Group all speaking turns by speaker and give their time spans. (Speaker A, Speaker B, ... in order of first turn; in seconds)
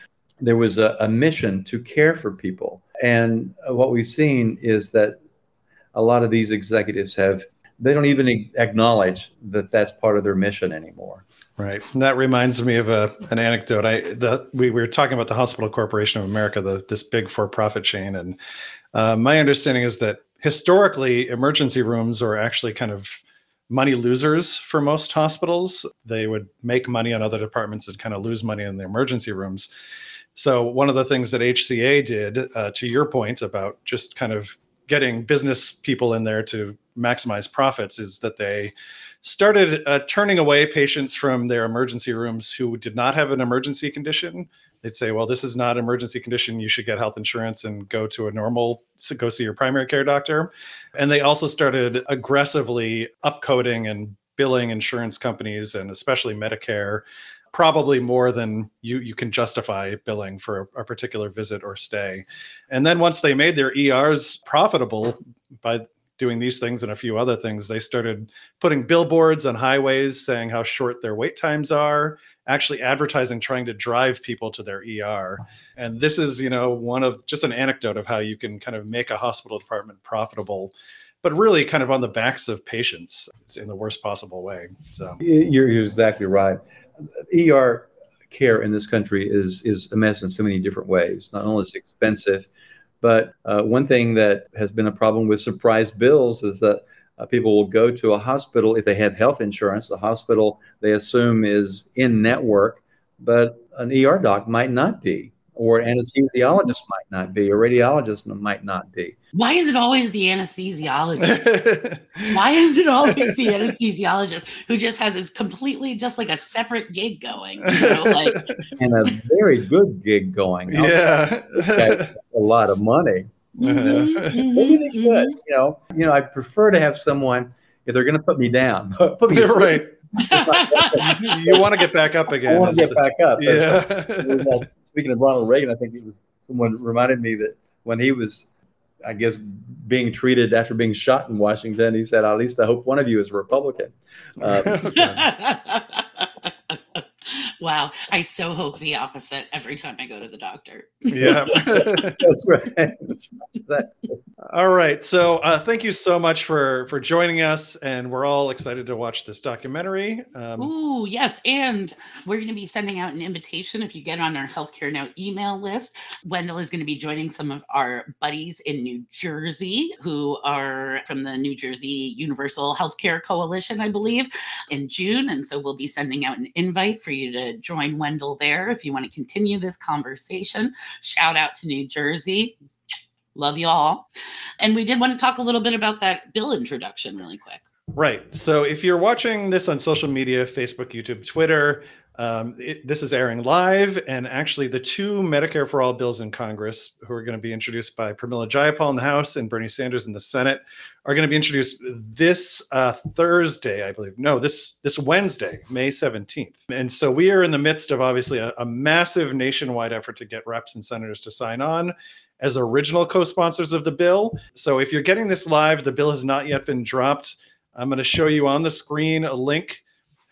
Speaker A: 0.4-5.2, 5.9-11.2, 85.2-86.6, 87.2-92.5, 93.0-109.2, 118.8-123.3, 123.9-131.6, 132.5-138.5, 139.0-144.9, 151.7-154.2
Speaker B: 11.6-18.4, 18.9-29.7, 30.4-85.2, 111.2-112.4, 113.1-113.4, 117.7-118.7, 120.7-122.1, 123.6-124.4, 129.3-129.9, 130.9-134.6, 144.4-145.2, 151.1-152.2, 154.4-160.7, 187.9-219.8
Speaker C: 109.3-111.5, 112.3-118.5, 123.6-125.4, 130.3-131.5, 144.9-151.9, 160.6-182.6, 183.3-184.1, 184.6-187.7